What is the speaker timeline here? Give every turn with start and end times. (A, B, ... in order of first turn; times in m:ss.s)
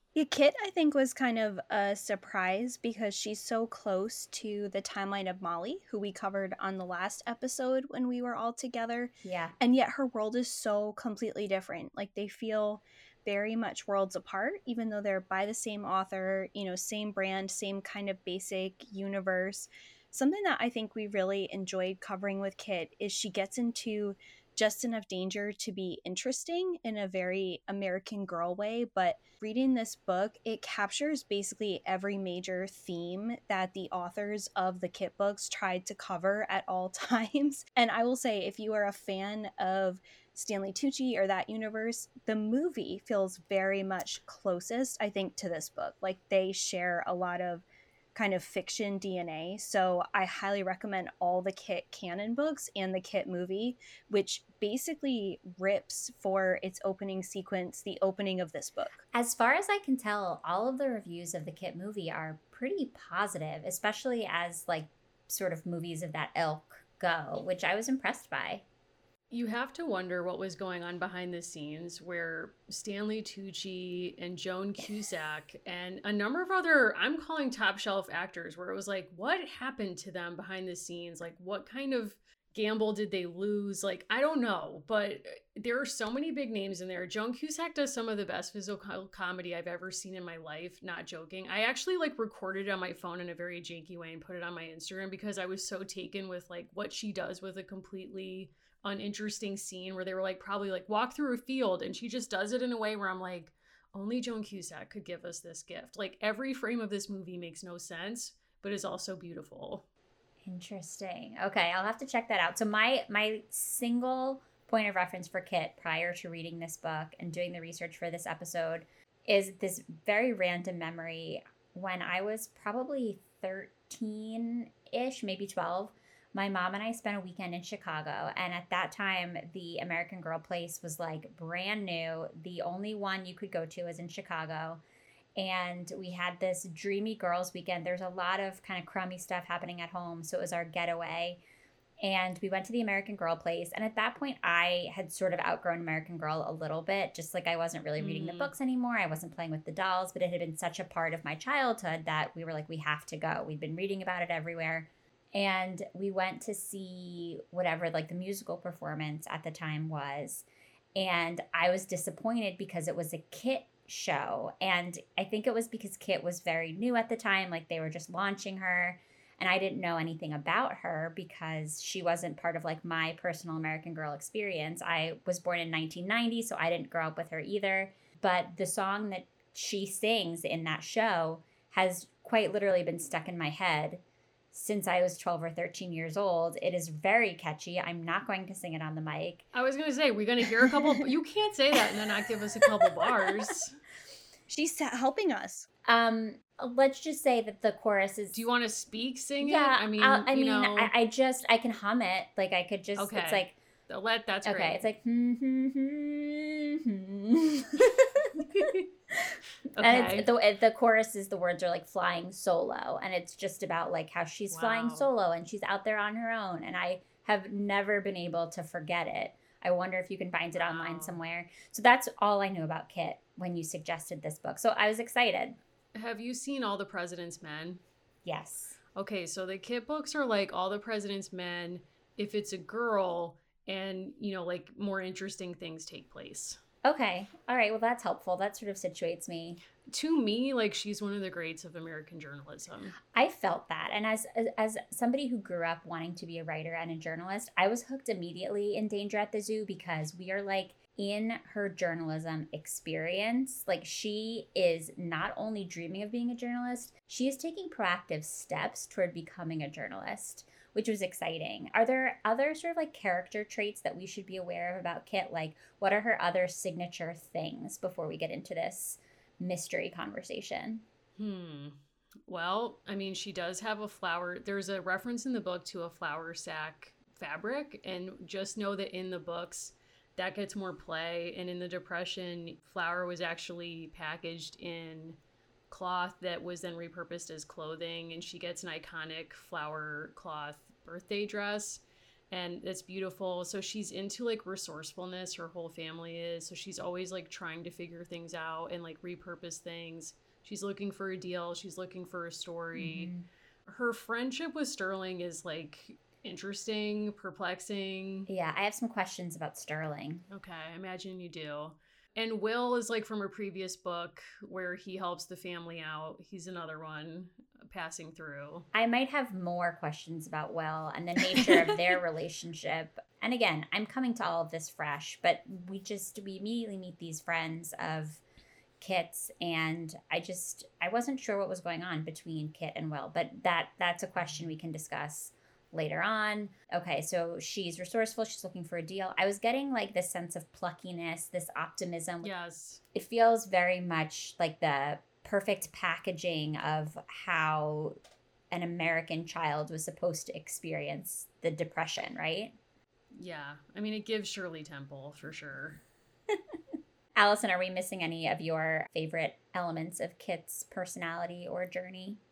0:00.2-0:59.0 A
0:09.2-0:09.6 B
0:59.1-1:08.6 B
1:09.3-1:49.8 C
1:50.4-2:14.8 B
2:15.4-2:21.4 B
2:22.0-2:40.4 B
2:28.0-2:28.5 C
2:41.0-3:04.0 B
3:04.5-3:09.4 B
3:09.5-3:13.8 C
3:14.5-3:15.7 A
3:15.9-3:18.4 B
3:18.3-3:20.9 C
3:19.4-3:23.6 B
3:23.0-3:24.8 C
3:24.4-3:45.6 B
3:29.7-3:30.3 C
3:34.5-3:35.1 C
3:40.6-3:41.2 C
3:46.0-3:47.8 C
3:48.2-3:48.8 B
3:49.0-3:56.6 C
3:56.8-3:59.6 B
3:59.9-4:03.0 C
4:03.1-4:30.8 B
4:31.2-4:45.2 C
4:45.7-5:03.1 C
5:02.8-5:03.3 B
5:03.7-5:08.3 C
5:08.3-5:10.2 B
5:10.3-5:18.7 C
5:18.7-5:28.2 B
5:28.8-5:42.3 B
5:42.2-5:42.8 C
5:42.9-5:48.0 B
5:48.5-5:52.6 B
5:53.1-5:55.8 C
5:57.2-6:02.2 B